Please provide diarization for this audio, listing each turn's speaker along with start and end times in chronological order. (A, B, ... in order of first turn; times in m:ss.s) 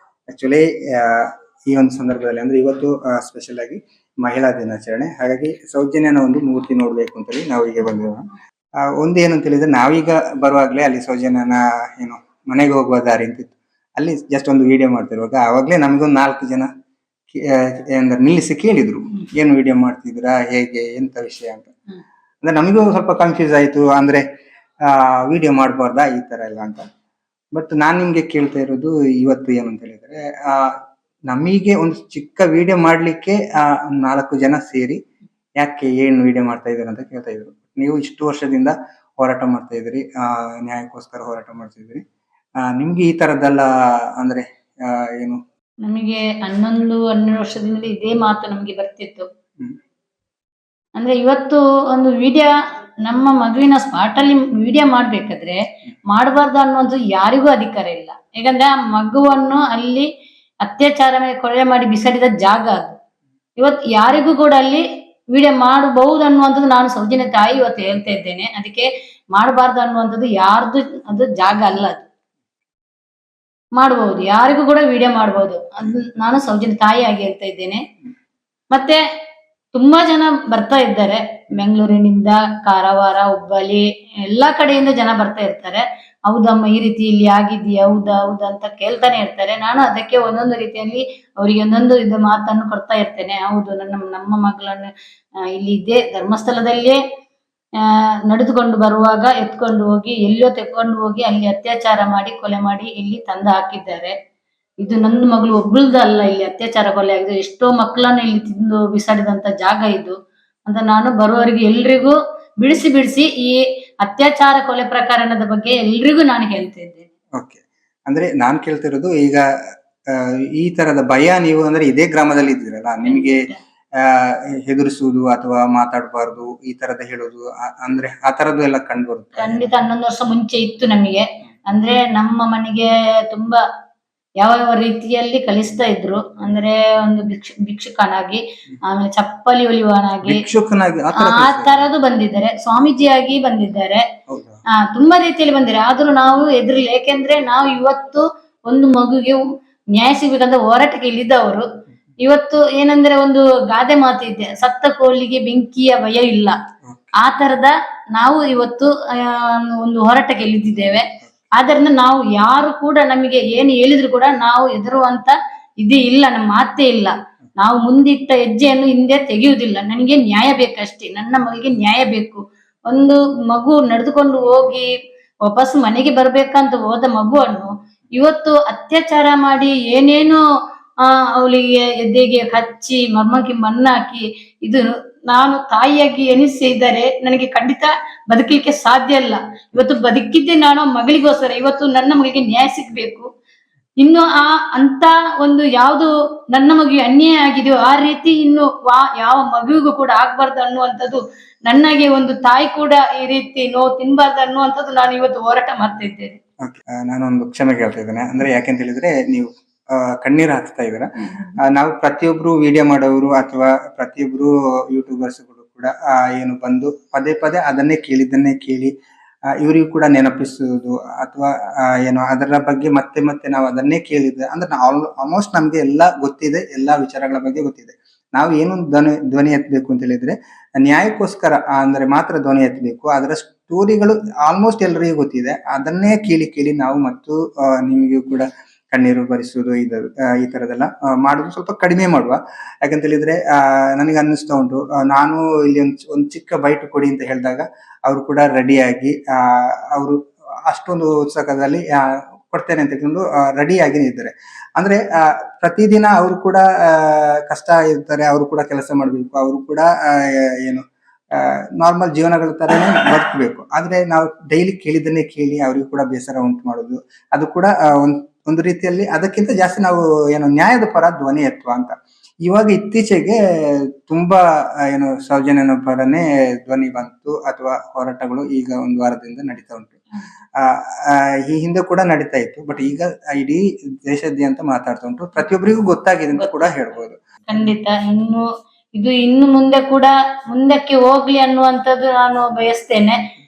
0:00.3-0:08.3 A
0:08.8-0:16.7 A
0:17.3-0:21.7 A
0:22.4-0:24.2 A
0:24.8-0:26.8 A
0:27.5-0:30.8 A
0:31.3-0:35.0 A
0:35.6-0:42.0 A
0:42.6-0:45.4 A
0:45.8-0:49.3 B
0:51.0-0:52.5 B
0:53.0-1:00.1 B
1:00.6-1:03.0 B
1:03.6-1:12.0 B
1:13.8-1:17.8 B
1:18.7-1:19.0 B
1:19.7-1:37.0 B
1:37.8-1:44.1 B
1:44.8-1:50.2 B
1:50.7-1:57.1 B
1:57.4-1:59.4 A
2:00.1-2:03.4 A
2:03.0-2:03.6 B
2:04.0-2:09.7 A
2:09.4-2:13.6 B
2:14.4-2:20.4 B
2:20.2-2:21.8 A
2:21.2-2:24.0 B
2:24.3-2:24.6 A
2:24.8-2:29.4 B
2:29.9-2:31.6 B
2:32.2-2:36.6 B
2:36.8-2:37.2 A
2:37.2-2:54.9 B
2:55.4-3:00.4 B
3:01.0-3:13.3 B
3:14.0-3:26.4 B
3:26.6-3:38.9 A
3:39.6-4:31.9 A
4:32.4-4:40.0 A
4:40.6-4:47.2 A
4:46.3-4:46.7 B
4:47.5-4:53.2 B